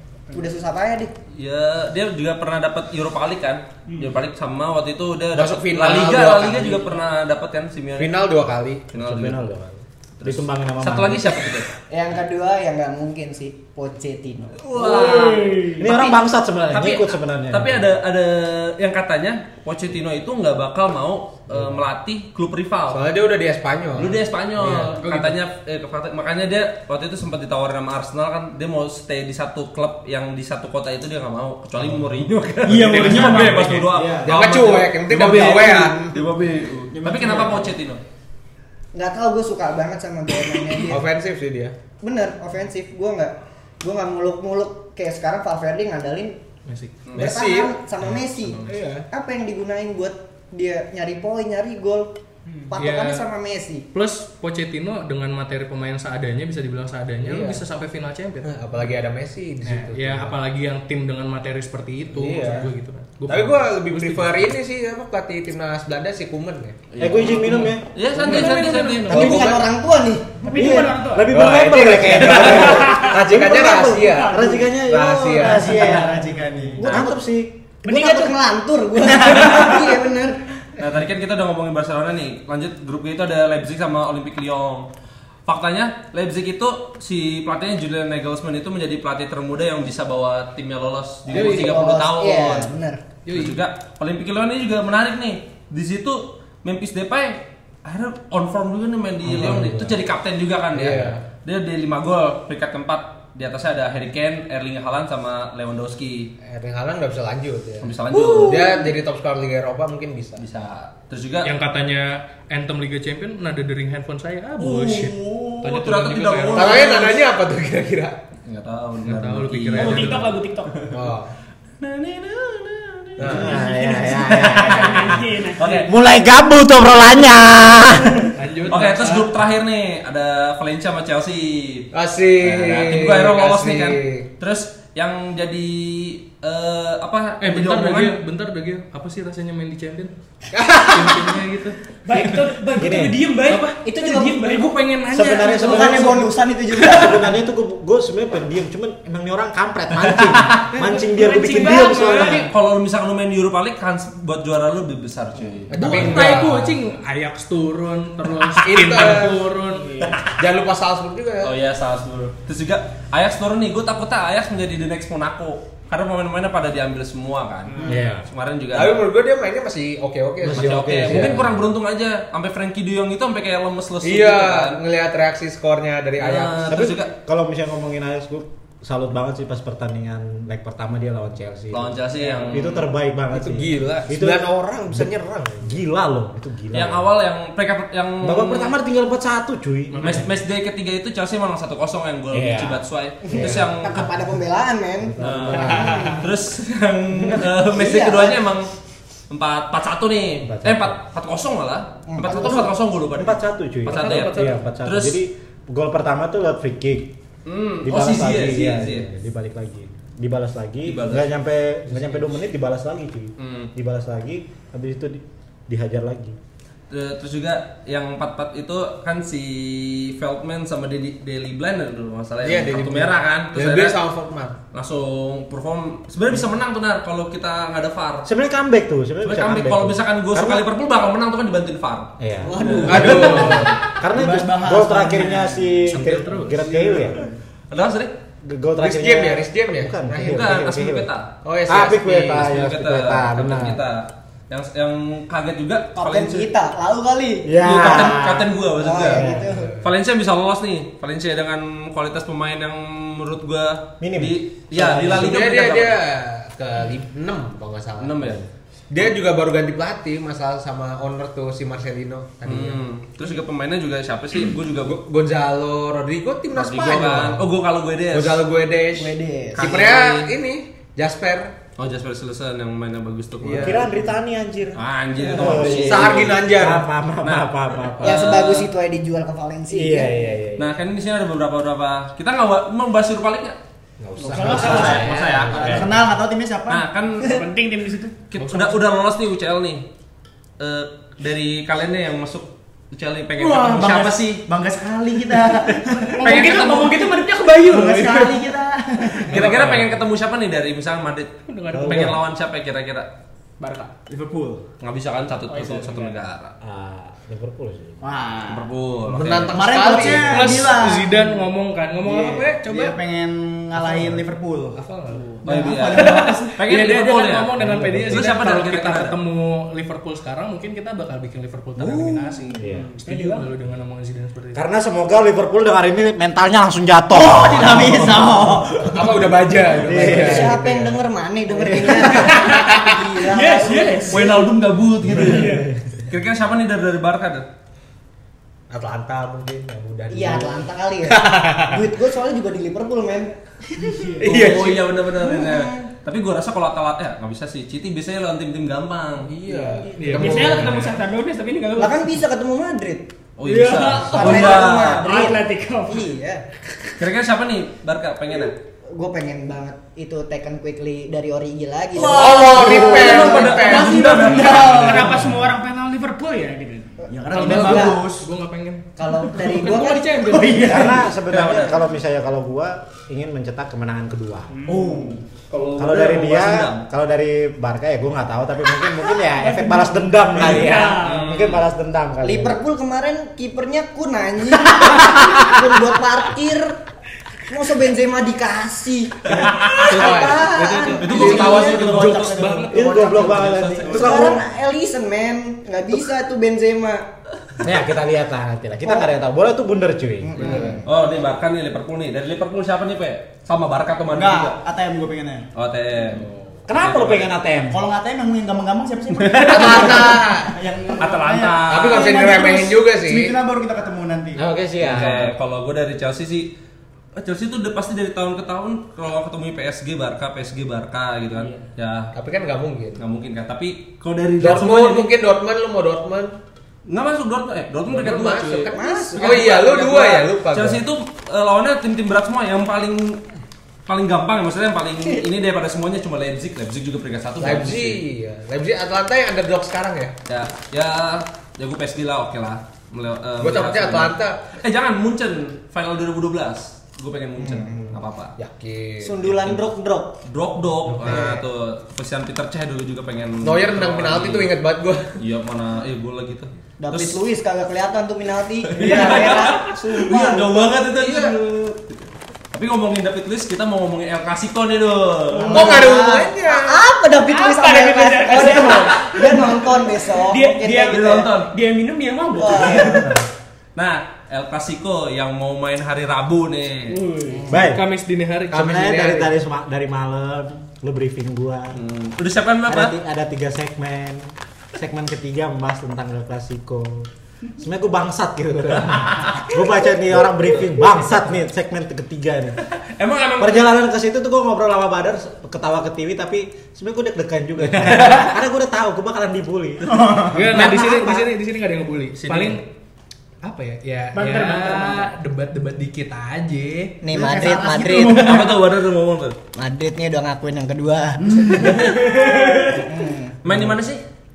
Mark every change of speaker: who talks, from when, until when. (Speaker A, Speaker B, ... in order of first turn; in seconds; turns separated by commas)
Speaker A: 0.3-1.1, Speaker B: 1.3-8.3, Speaker C: 5.3-6.9, Speaker C: 8.0-8.8, Speaker B: 8.9-9.4, Speaker D: 8.9-11.4, Speaker B: 10.2-11.7, Speaker A: 11.9-16.1, Speaker B: 14.6-15.6, Speaker E: 14.7-15.8, Speaker D: 15.8-17.9, Speaker B: 16.7-23.0, Speaker C: 22.9-24.9, Speaker B: 24.0-38.0, Speaker F: 24.9-25.3, Speaker G: 32.6-34.4, Speaker F: 32.8-33.9, Speaker C: 34.2-36.0, Speaker G: 36.9-37.7, Speaker A: 38.9-41.1, Speaker C: 40.9-41.7, Speaker A: 42.0-46.4, Speaker F: 46.6-47.0, Speaker B: 47.0-47.3, Speaker C: 47.1-47.8, Speaker A: 47.1-52.1, Speaker F: 48.0-48.8, Speaker C: 48.6-49.0, Speaker A: 52.7-53.9, Speaker F: 52.8-53.2, Speaker F: 53.9-58.5, Speaker C: 57.2-57.6, Speaker C: 58.4-60.4, Speaker F: 59.6-64.5, Speaker C: 62.1-62.7, Speaker C: 63.3-66.8, Speaker B: 66.9-69.3, Speaker D: 67.0-67.9, Speaker F: 67.2-69.3, Speaker A: 69.1-70.4, Speaker C: 69.1-69.7, Speaker E: 70.4-71.4, Speaker D: 70.5-76.0, Speaker C: 71.3-75.8, Speaker E: 72.6-73.2, Speaker E: 74.0-74.8, Speaker G: 75.4-76.9, Speaker A: 75.7-76.1, Speaker B: 76.8-77.1, Speaker A: 76.8-77.2, Speaker D: 76.8-77.5, Speaker A: 77.8-80.4, Speaker E: 77.8-78.4, Speaker B: 80.8-84.9, Speaker B: 85.5-92.7, Speaker A: 91.3-93.0, Speaker F: 91.3-91.7, Speaker F: 93.2-93.6, Speaker B: 93.3-106.3, Speaker D: 99.2-100.0, Speaker C: 100.7-101.2, Speaker C: 106.4-110.5, Speaker B: 107.8-108.8, Speaker B: 110.4-111.5, Speaker F: 111.4-116.8, Speaker B: 114.6-117.2, Speaker C: 116.5-118.2, Speaker B: 118.5-120.2, Speaker F: 119.0-120.4, Speaker E: 119.7-120.9, Speaker C: 120.9-121.3, Speaker B: 121.8-123.6, Speaker C: 123.2-123.6, Speaker D: 123.2-128.3, Speaker E: 123.6-125.9, Speaker B: 124.5-125.9, Speaker F: 128.3-129.3, Speaker B: 128.7-131.9, Speaker C: 131.9-134.3, Speaker B: 132.4-138.2, Speaker F: 137.4-140.1, Speaker C: 140.5-141.4, Speaker F: 140.9-141.8, Speaker E: 142.1-145.8, Speaker D: 142.7-143.2, Speaker A: 143.8-144.4, Speaker F: 144.5-145.8, Speaker D: 145.1-146.2, Speaker G: 145.5-147.4, Speaker D: 146.8-152.5, Speaker B: 150.2-150.6, Speaker E: 150.9-152.4, Speaker B: 152.1-156.6, Speaker C: 155.7-156.7, Speaker F: 155.7-160.0, Speaker C: 158.5-159.5, Speaker E: 159.7-160.2, Speaker C: 160.4-161.5, Speaker B: 161.4-169.1, Speaker E: 167.7-168.0, Speaker D: 167.8-168.3, Speaker C: 168.7-171.4, Speaker D: 170.4-171.6, Speaker B: 170.5-174.8, Speaker C: 174.0-176.9, Speaker B: 176.2-177.1, Speaker D: 176.7-187.1, Speaker B: 181.7-182.9, Speaker C: 183.3-185.8, Speaker B: 186.7-188.8, Speaker D: 188.2-190.3, Speaker F: 189.9-190.3, Speaker B: 190.0-194.1, Speaker D: 192.3-194.1, Speaker A: 193.2-196.2, Speaker D: 195.0-196.2, Speaker B: 195.2-198.7, Speaker A: 197.7-198.4, Speaker B: 199.3-205.2, Speaker D: 200.4-201.0, Speaker A: 202.1-202.7, Speaker D: 202.2-207.1, Speaker F: 203.9-204.5, Speaker B: 207.4-209.1, Speaker D: 207.8-216.4, Speaker B: 210.8-211.3, Speaker B: 211.9-212.2, Speaker B: 213.4-213.7, Speaker B: 216.9-224.0, Speaker C: 222.4-224.6, Speaker B: 224.7-228.3, Speaker D: 228.2-230.7, Speaker B: 229.2-233.8, Speaker D: 232.2-237.2, Speaker G: 232.6-233.4, Speaker C: 232.8-233.7, Speaker F: 233.0-233.6, Speaker G: 234.0-235.8, Speaker F: 235.9-236.8, Speaker G: 236.8-237.1, Speaker B: 237.7-238.1, Speaker D: 238.4-241.1, Speaker C: 238.8-240.5, Speaker B: 240.2-241.3, Speaker C: 241.4-242.5, Speaker D: 241.7-243.8, Speaker B: 242.3-246.5, Speaker A: 245.9-248.0, Speaker D: 247.4-249.5, Speaker B: 247.6-256.0, Speaker A: 248.8-249.7, Speaker C: 249.4-249.9, Speaker D: 254.0-255.3, Speaker C: 254.8-262.8, Speaker B: 258.0-258.4, Speaker B: 262.4-265.0, Speaker C: 264.8-267.4, Speaker B: 266.5-268.4, Speaker C: 268.1-271.6, Speaker A: 268.9-269.8, Speaker B: 269.5-270.3, Speaker B: 271.8-273.9, Speaker C: 273.4-273.9, Speaker D: 273.5-278.3, Speaker B: 274.7-276.5, Speaker C: 275.5-276.9, Speaker B: 277.2-278.7, Speaker A: 278.0-280.2, Speaker D: 279.7-280.8, Speaker B: 280.6-283.6, Speaker D: 284.1-286.0, Speaker C: 284.2-284.6, Speaker E: 284.2-285.1, Speaker G: 284.3-287.4, Speaker B: 284.3-285.9, Speaker B: 286.7-287.4, Speaker E: 287.2-288.1, Speaker B: 288.3-289.9, Speaker F: 288.4-288.8, Speaker B: 290.6-294.4, Speaker G: 293.4-296.9, Speaker E: 296.1-298.4, Speaker B: 296.2-297.0, Speaker G: 297.6-299.5, Speaker B: 299.3-303.1, Speaker D: 299.4-300.0, Speaker F: 301.4-302.1, Speaker D: 301.7-302.2, Speaker E: 303.6-303.9, Speaker G: 304.1-304.6, Speaker B: 304.8-306.5, Speaker E: 305.5-306.1, Speaker D: 306.6-308.0, Speaker G: 308.0-308.7, Speaker B: 308.5-309.8, Speaker C: 309.1-310.6, Speaker G: 309.4-311.3, Speaker F: 310.2-313.0, Speaker G: 312.0-314.8, Speaker F: 313.8-314.2, Speaker F: 314.7-324.6, Speaker E: 315.1-315.4, Speaker G: 315.4-316.5, Speaker B: 315.4-317.5, Speaker D: 317.6-318.3, Speaker B: 318.1-319.2, Speaker D: 322.6-322.9, Speaker E: 322.6-323.5, Speaker D: 324.5-328.4, Speaker G: 327.1-329.2, Speaker C: 328.9-331.0, Speaker D: 329.8-330.6, Speaker A: 330.0-334.1, Speaker D: 331.5-332.1, Speaker E: 332.0-334.5, Speaker B: 334.1-337.5, Speaker D: 335.0-335.7, Speaker E: 335.2-335.7, Speaker C: 338.7-341.8, Speaker A: 340.1-343.3, Speaker E: 343.8-344.5, Speaker C: 344.2-345.0, Speaker B: 344.2-349.3, Speaker A: 345.1-345.9, Speaker C: 349.2-350.8, Speaker F: 350.0-351.0, Speaker E: 350.0-352.2, Speaker A: 351.8-353.1, Speaker B: 353.4-355.1, Speaker E: 353.4-356.1, Speaker A: 354.1-356.4, Speaker B: 357.0-358.6, Speaker A: 358.9-363.8, Speaker C: 362.0-364.0, Speaker B: 362.0-365.3, Speaker G: 362.4-363.3, Speaker E: 363.7-367.0, Speaker G: 363.9-365.3, Speaker G: 367.1-368.2, Speaker A: 367.3-368.0, Speaker F: 367.3-368.8, Speaker A: 369.0-370.5, Speaker F: 369.4-370.8, Speaker G: 370.3-370.9, Speaker D: 370.6-374.6, Speaker B: 371.2-371.8, Speaker E: 374.5-375.1, Speaker B: 374.7-376.8, Speaker D: 375.8-382.6, Speaker E: 379.3-381.3, Speaker B: 381.0-381.6, Speaker A: 382.2-386.8, Speaker A: 387.5-392.0, Speaker B: 389.3-390.3, Speaker C: 389.4-391.7, Speaker B: 390.9-392.4, Speaker G: 390.9-394.2, Speaker F: 391.9-393.4, Speaker D: 392.7-394.4, Speaker B: 393.4-394.1, Speaker A: 393.9-397.1, Speaker D: 397.6-400.7, Speaker A: 398.8-399.1, Speaker A: 400.2-401.2, Speaker B: 400.4-404.6, Speaker C: 400.4-400.8, Speaker G: 404.1-405.5, Speaker B: 405.5-406.3, Speaker D: 406.7-407.8, Speaker B: 406.8-407.3, Speaker G: 407.7-414.4, Speaker B: 409.3-409.7, Speaker C: 409.4-410.5, Speaker B: 411.0-412.3, Speaker C: 411.7-413.3, Speaker D: 414.4-415.3, Speaker B: 414.8-416.5, Speaker B: 417.1-422.1, Speaker E: 421.3-421.6, Speaker C: 422.1-423.0, Speaker B: 423.0-425.1, Speaker C: 424.4-426.3, Speaker B: 426.9-433.2, Speaker C: 427.9-430.8, Speaker A: 428.7-429.9, Speaker B: 433.9-438.0, Speaker C: 437.4-440.1, Speaker B: 440.3-448.3, Speaker C: 443.4-444.4, Speaker A: 447.4-448.0, Speaker C: 448.4-449.6, Speaker A: 449.0-450.1, Speaker B: 450.3-454.5, Speaker A: 451.0-451.4, Speaker C: 453.4-455.0, Speaker B: 455.2-457.2, Speaker A: 456.8-460.8, Speaker B: 458.7-462.0, Speaker B: 462.5-465.7, Speaker A: 465.4-471.3, Speaker C: 465.5-466.8, Speaker E: 467.2-473.1, Speaker B: 470.9-471.5, Speaker A: 472.3-473.2, Speaker D: 472.6-473.2, Speaker B: 473.8-477.0, Speaker E: 476.9-477.5, Speaker A: 477.3-477.6, Speaker D: 477.5-477.8, Speaker F: 477.5-478.7, Speaker C: 478.5-479.3, Speaker D: 478.5-481.8, Speaker B: 481.7-482.9, Speaker D: 482.7-492.6, Speaker B: 492.7-493.7, Speaker D: 493.4-501.3, Speaker B: 497.9-498.3, Speaker G: 499.8-500.5, Speaker F: 500.3-502.6, Speaker B: 502.2-502.6, Speaker F: 503.4-507.0, Speaker E: 504.1-505.1, Speaker A: 507.0-508.5, Speaker G: 507.1-508.6, Speaker B: 508.1-509.4, Speaker A: 509.6-512.2, Speaker G: 511.3-512.7, Speaker A: 512.7-513.4, Speaker B: 513.4-514.0, Speaker D: 513.4-513.8